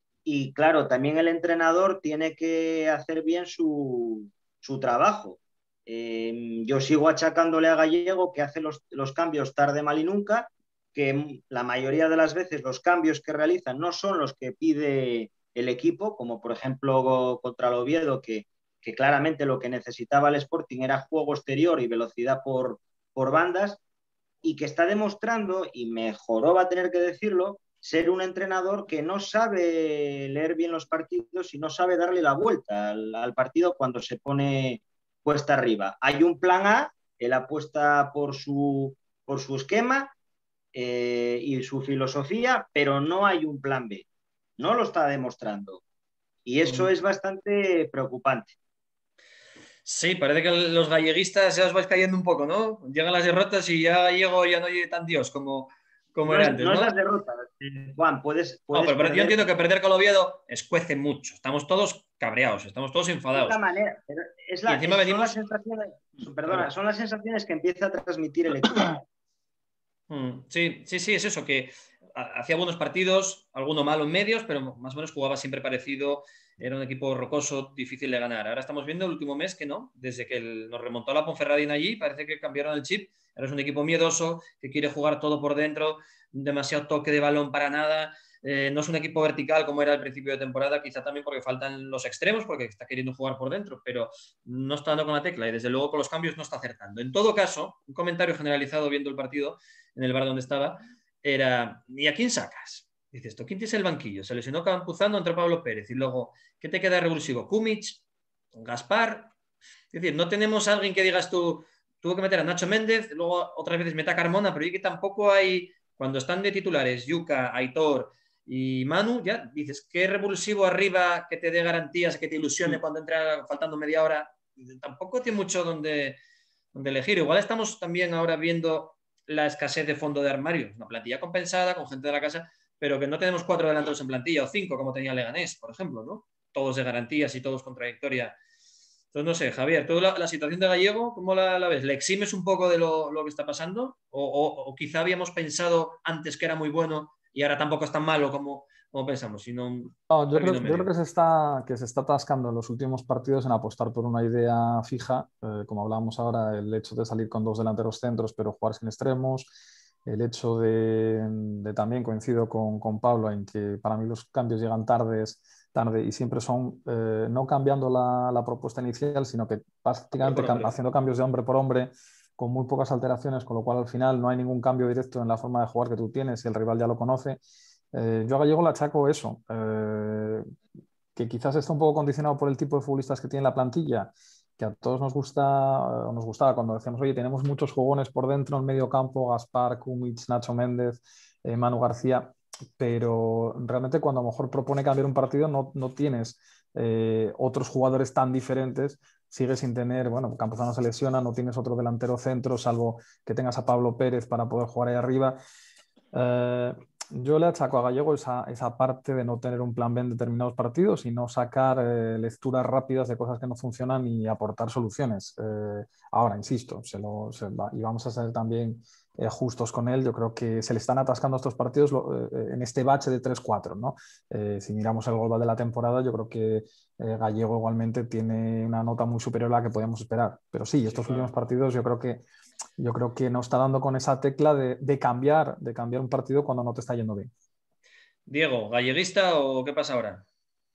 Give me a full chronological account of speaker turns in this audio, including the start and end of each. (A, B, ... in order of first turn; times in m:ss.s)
0:00.2-0:23.8 A
0:24.4-0:40.1 A
0:40.7-0:44.0 A
0:44.6-0:45.8 A
0:46.4-0:48.5 A
0:46.6-0:46.9 B
0:49.8-0:56.9 B
0:56.3-0:59.4 A
0:58.7-1:03.6 B
1:03.3-1:09.0 A
1:04.6-1:05.4 B
1:06.4-1:06.7 B
1:10.1-1:48.0 B
1:48.5-1:49.3 B
1:49.9-2:06.2 B
2:06.7-2:18.3 B
2:19.1-2:30.9 B
2:30.1-2:39.5 C
2:40.0-2:57.4 C
2:50.2-2:50.7 B
2:57.9-3:00.4 C
3:01.1-3:25.4 C
3:26.1-3:52.2 C
3:50.9-3:51.3 B
3:52.8-3:57.3 C
3:58.3-4:00.2 B